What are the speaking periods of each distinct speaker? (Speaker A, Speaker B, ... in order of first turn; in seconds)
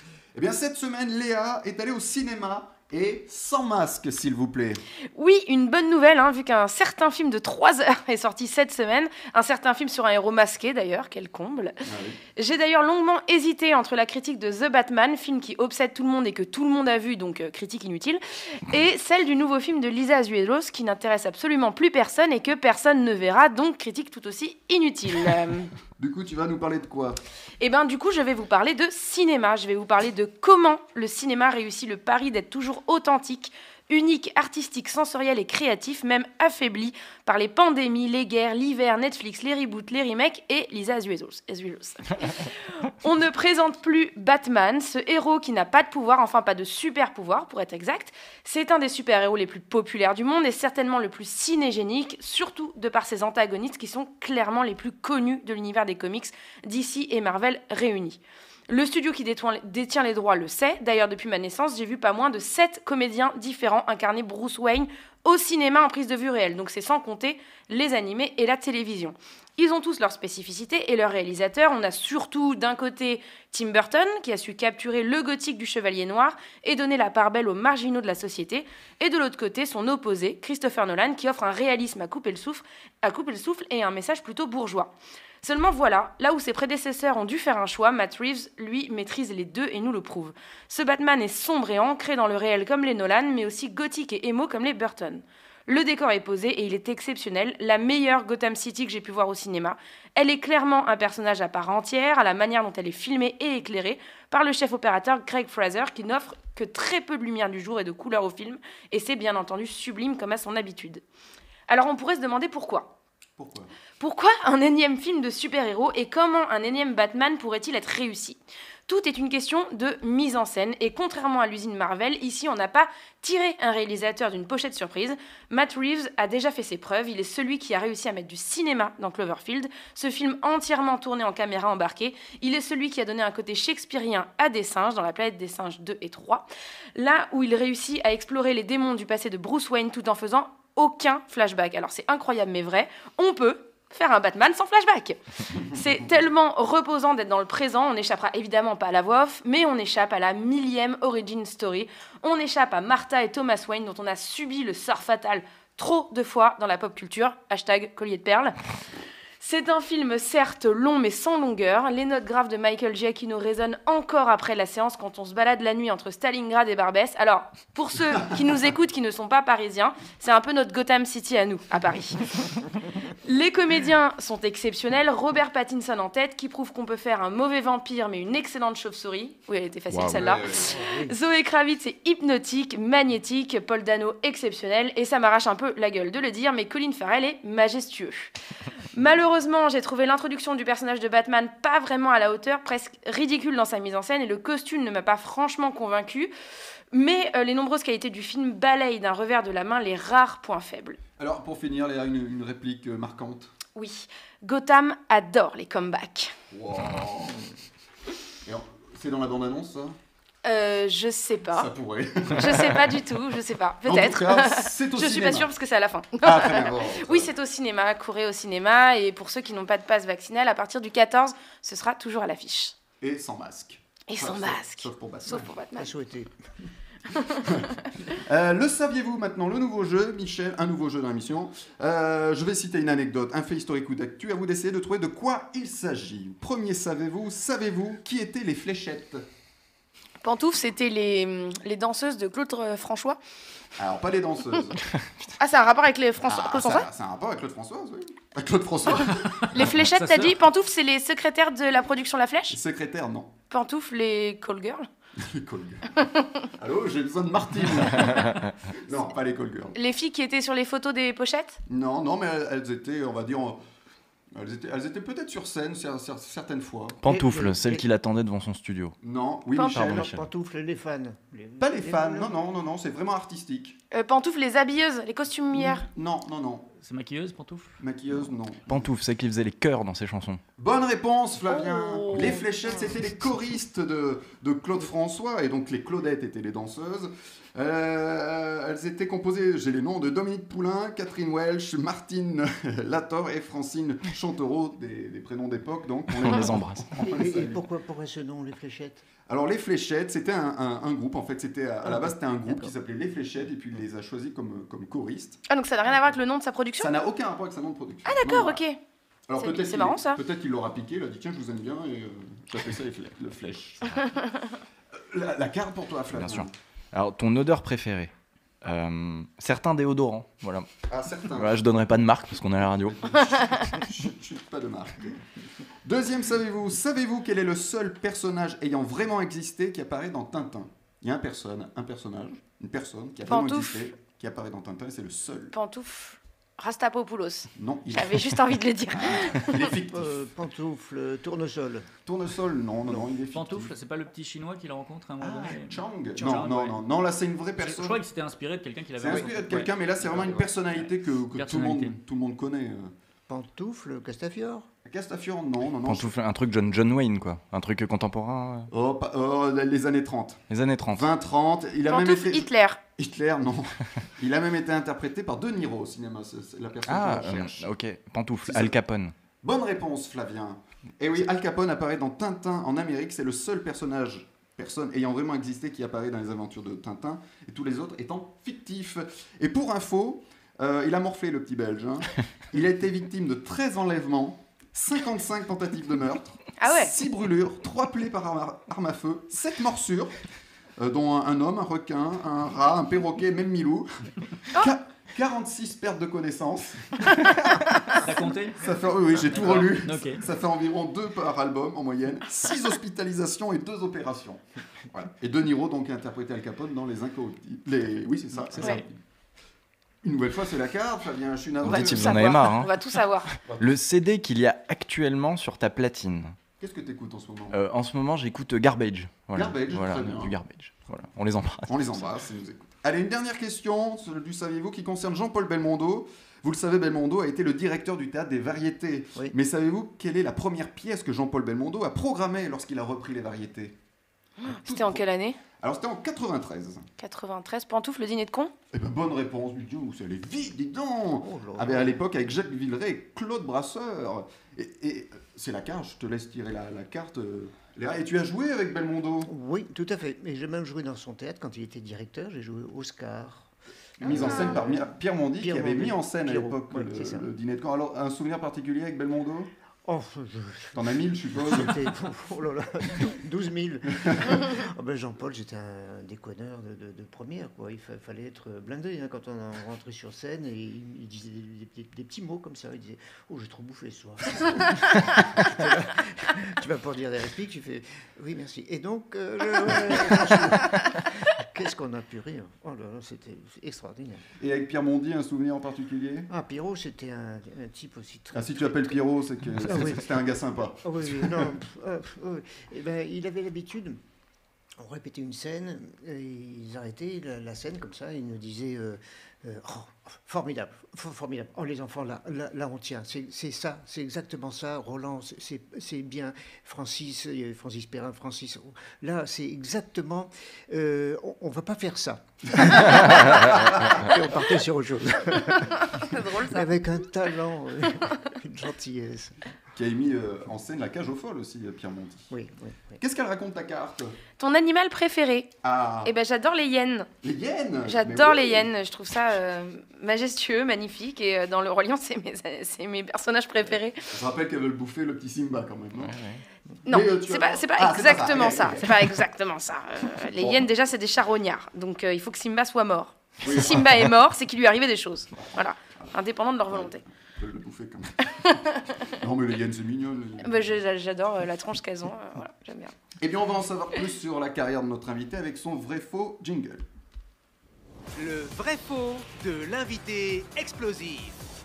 Speaker A: 0.3-4.8, 11.8-12.2, 26.0-27.2, 113.4-113.7, 180.0-180.7, 201.2-203.5, 206.5-207.5, 208.4-209.9, 211.5-212.7, 213.8-215.5, 216.2-217.3, 223.0-225.5, 227.4-239.2, 243.8-244.8, 246.2-249.7, 252.5-253.3, 255.2-255.9, 256.6-259.7, 261.7-263.6, 264.3-267.0, 269.0-270.1, 271.6-273.8, 275.5-276.7, 277.8-278.9, 280.6-297.6, 299.3-305.4, 306.8-308.6, 309.3-313.9, 315.0-316.5, 320.9-321.6, 323.2-325.2, 325.8-335.5, 337.6-338.3, 338.9-340.1, 342.1-343.7, 345.2-348.0, 349.0-352.9, 354.9-356.1, 358.7-367.7, 368.4-368.8, 369.4-390.2, 390.8-393.9, 394.5-397.4, 398.6-408.9, 410.0-412.4, 413.5-413.8, 416.6-417.6, 419.3-420.4, 421.7-433.8, 434.5-435.0, 435.6-436.9, 438.7-449.3, 454.0-459.5, 460.7-461.8, 464.1-464.4, 484.4-486.3, 488.3-491.5, 513.5-513.9, 519.7-522.3, 523.0-524.2, 525.6-526.1, 527.2-528.7, 534.1-536.1, 536.9-539.2, 540.4-540.6, 543.4-544.1, 545.4-546.1, 546.7-550.8, 553.2-556.9
Speaker B: 5.1-11.8, 12.4-25.7, 27.6-111.0, 111.7-112.9, 114.0-158.6, 159.4-172.5, 173.2-188.3, 188.9-196.3, 196.9-201.0, 203.7-206.3, 210.4-211.7, 212.3-222.7, 224.1-225.9, 227.1-227.4, 240.2-243.2, 245.4-246.9, 249.5-252.6, 253.5-254.8, 259.7-261.6, 273.9-275.8, 281.5-282.4, 305.5-306.9, 308.1-308.8, 309.4-310.2, 333.3-333.8, 335.5-339.6, 361.9-362.8, 386.6-386.9, 411.7-413.3, 434.4-435.4, 437.0-438.5, 454.1-454.4, 515.7-516.7, 524.4-527.1, 527.9-534.0, 536.9-547.0, 550.4-552.9
Speaker C: 180.5-181.2, 225.8-226.7, 267.1-267.8, 269.8-272.3, 297.0-299.0, 301.8-302.7, 339.9-341.9, 353.3-354.7, 441.2-442.0, 449.2-457.3, 459.8-484.2, 486.3-489.0, 489.6-494.0, 494.8-519.4, 522.3-523.0
Speaker D: 249.8-250.4, 276.8-277.8, 343.3-346.8, 347.6-350.4, 351.3-352.0, 398.0-398.7, 399.2-400.2
Speaker E: 258.0-258.5, 267.0-268.9, 269.6-270.2, 278.7-280.4, 296.1-296.9, 316.1-318.1, 318.6-320.7, 321.3-323.6, 355.8-358.7, 360.5-361.1, 366.9-369.1, 411.6-412.7, 413.6-416.4, 417.5-421.9, 536.0-536.4
Speaker F: 558.1-561.4